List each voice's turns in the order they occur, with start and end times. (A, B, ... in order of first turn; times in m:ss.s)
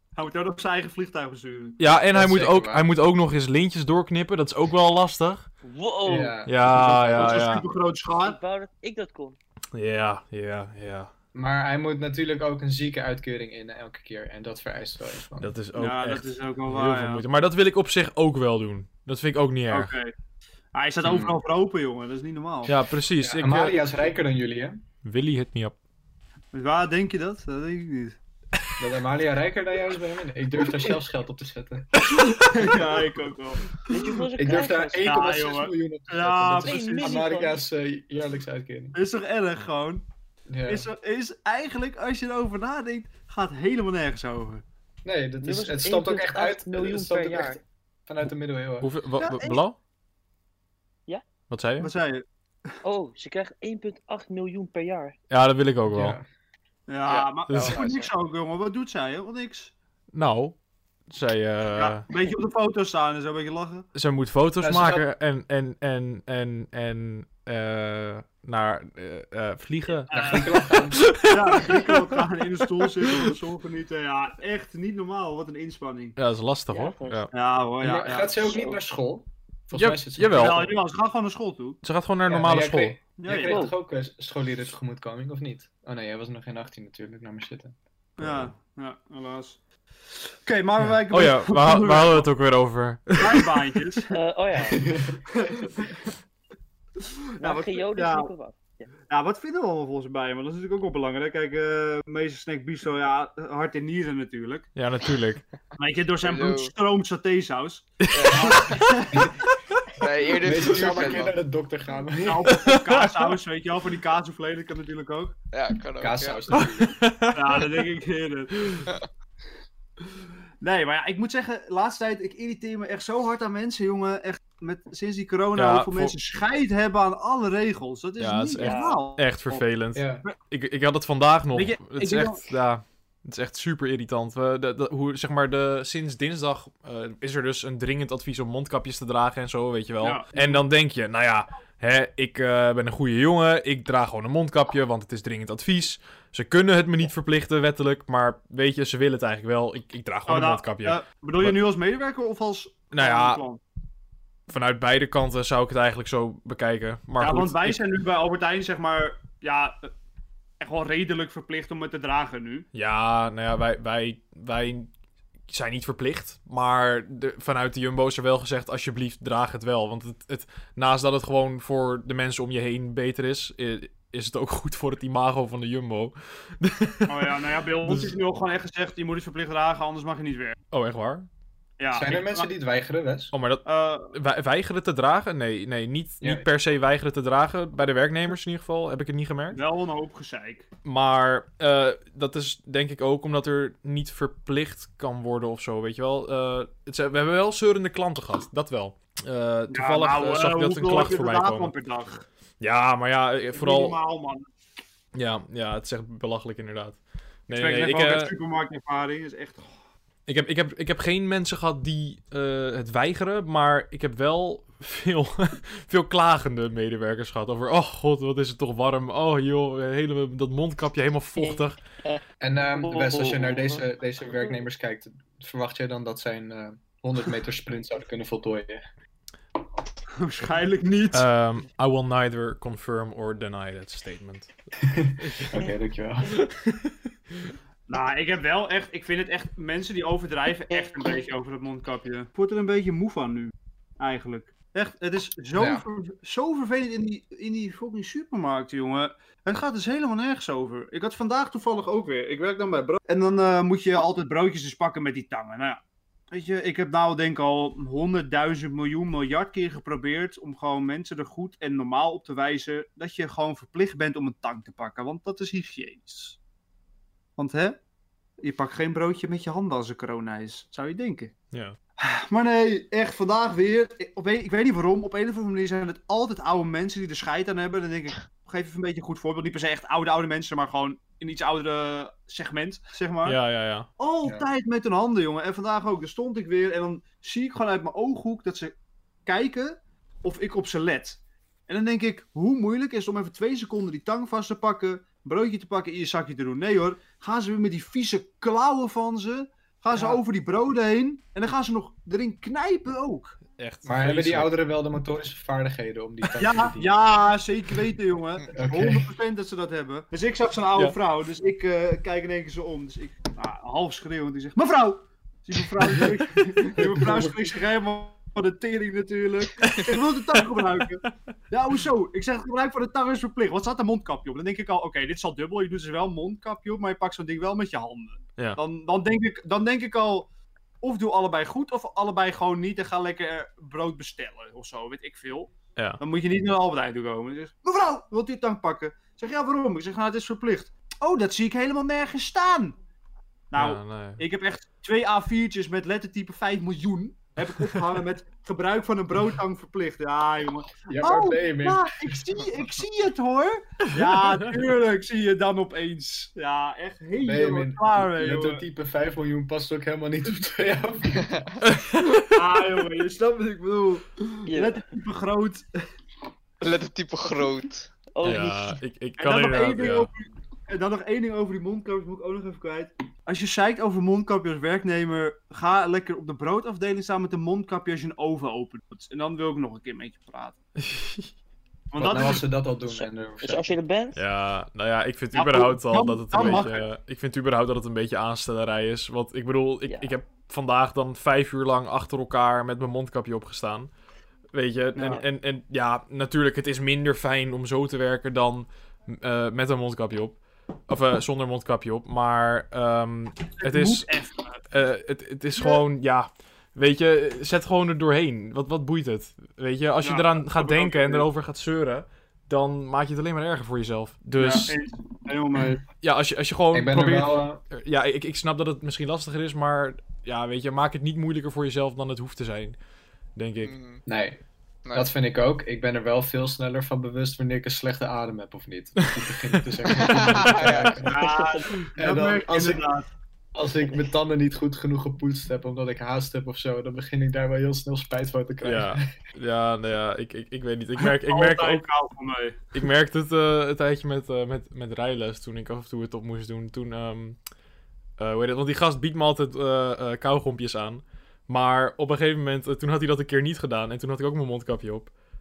0:00.2-0:01.8 A
0:01.8-0:05.5 B
0:02.1-0:02.9 C
0:05.6-0:06.4 D
0:06.0-0:07.4 C
0:06.4-0:07.6 B
0:06.8-0:08.4 A
0:08.2-0:09.4 D
0:09.7-0:11.1 B
0:11.3-0:15.5 C
0:15.4-0:19.9 B
0:15.8-0:17.2 A
0:19.7-0:20.1 A
0:20.7-0:22.7 A
0:21.0-0:21.4 C
0:22.7-0:23.8 B
0:23.2-0:24.8 C
0:25.0-0:25.7 B
0:26.5-0:28.2 A
0:28.8-0:32.7 C
0:32.2-0:34.1 A
0:33.9-0:35.2 D
0:34.4-0:39.0 C
0:35.0-0:37.2 A
0:36.6-0:37.6 D
0:38.9-0:40.0 A
0:40.5-0:40.8 C
0:40.6-0:44.6 A
0:45.0-0:48.9 C
0:45.4-0:47.6 D
0:48.8-0:49.8 B
0:49.2-0:49.6 A
0:51.5-0:51.9 B
0:51.8-0:52.2 A
0:52.8-0:55.2 D
0:55.3-0:56.2 B
0:55.9-0:56.2 C
0:56.9-0:59.7 A
0:57.1-0:58.1 E
0:57.5-0:57.8 B
1:00.1-1:00.6 B
1:01.1-1:02.0 B
1:01.8-1:03.8 A
1:03.9-1:12.2 B
1:04.6-1:05.0 C
1:10.1-1:16.2 A
1:10.1-1:11.1 C
1:13.0-1:13.3 B
1:16.2-1:17.3 B
1:16.7-1:17.3 D
1:17.3-1:18.6 A
1:17.8-1:20.6 C
1:18.4-1:18.8 D
1:19.7-1:20.7 B
1:20.3-1:21.8 A
1:21.8-1:23.0 B
1:22.2-1:28.5 C
1:23.2-1:23.6 A
1:23.4-1:23.7 D
1:28.2-1:29.6 A
1:30.4-1:32.3 A
1:31.1-1:33.4 B
1:33.2-1:34.1 A
1:34.1-1:34.8 D
1:34.7-1:35.2 C
1:35.3-1:36.0 A
1:37.4-1:38.3 A
1:37.4-1:38.9 D
1:39.1-1:44.7 A
1:44.8-1:45.4 B
1:45.8-1:49.3 A
1:46.2-1:46.7 E
1:48.0-1:48.5 B
1:48.1-1:48.9 E
1:50.0-1:51.4 E
1:50.4-1:52.6 C
1:52.2-1:55.3 A
1:52.6-1:53.2 B
1:55.5-1:56.6 E
1:56.0-1:57.0 C
1:56.5-1:57.8 B
1:57.3-1:58.8 A
2:00.6-2:09.6 A
2:05.6-2:06.1 B
2:08.2-2:31.6 B
2:08.6-2:09.0 D
2:09.9-2:10.2 C
2:11.5-2:12.4 A
2:20.0-2:20.6 A
2:30.3-2:33.6 A
2:32.9-2:33.4 B
2:34.5-2:37.8 B
2:37.2-2:39.9 A
2:40.6-2:42.6 A
2:42.7-2:44.9 B
2:45.5-2:58.1 B
2:57.1-3:00.6 A
3:00.7-3:01.3 B
3:01.8-3:02.5 A
3:01.9-3:03.3 C
3:03.3-3:09.6 B
3:03.6-3:04.1 A
3:06.2-3:06.4 C
3:09.5-3:10.7 A
3:10.8-3:21.7 B
3:19.7-3:22.2 A
3:22.6-3:24.0 B
3:23.5-3:24.4 A
3:25.1-3:28.3 B
3:27.5-3:29.7 A
3:30.3-3:41.8 B
3:41.4-3:43.8 D
3:42.4-3:48.8 C
3:50.2-3:51.3 A
3:51.1-3:54.5 B
3:54.8-3:56.4 C
3:55.2-3:55.6 B
3:56.3-3:57.5 B
3:57.9-4:26.4 A
4:00.7-4:01.2 D
4:05.6-4:05.8 C
4:27.4-4:27.8 A
4:28.4-4:31.3 A
4:32.0-4:43.4 A
4:43.2-4:43.9 B
4:44.0-4:48.7 A
4:44.2-4:44.5 C
4:49.2-5:03.4 A
4:59.9-5:00.2 C
5:03.6-5:04.5 B
5:03.8-5:07.0 C
5:06.4-5:30.3 A
5:08.5-5:09.1 C
5:15.8-5:16.6 B
5:16.8-5:17.3 C
5:19.6-5:20.6 B
5:30.8-5:42.8 A
5:43.5-5:58.6 A
5:43.6-5:44.2 B
5:50.9-5:52.2 C
5:54.2-5:54.5 B
5:57.2-6:01.6 C
6:01.6-6:02.3 B
6:02.3-6:05.6 A
6:04.5-6:04.8 D
6:06.6-6:07.9 E
6:08.1-6:08.8 D
6:08.2-6:10.1 B
6:09.2-6:20.6 A
6:20.8-6:21.3 B
6:21.9-6:22.4 A
6:22.0-6:23.8 C
6:22.8-6:24.2 D
6:24.1-6:33.9 B
6:25.3-6:26.9 A
6:29.9-6:30.1 D
6:34.5-6:44.1 B
6:35.0-6:35.2 A
6:43.6-6:44.6 A
6:44.7-6:54.7 B
6:50.0-6:51.2 A
6:54.4-6:55.8 A
6:56.0-7:02.8 B
6:56.7-6:57.6 C
7:03.4-7:03.7 B
7:03.6-7:04.0 E
7:04.0-7:04.4 C
7:04.9-7:11.4 C
7:09.1-7:10.8 B
7:09.9-7:11.1 E
7:11.0-7:13.1 A
7:11.9-7:12.8 C
7:13.5-7:19.1 C
7:18.6-7:21.8 B
7:21.0-7:22.6 A
7:22.7-7:27.4 B
7:28.2-7:35.1 B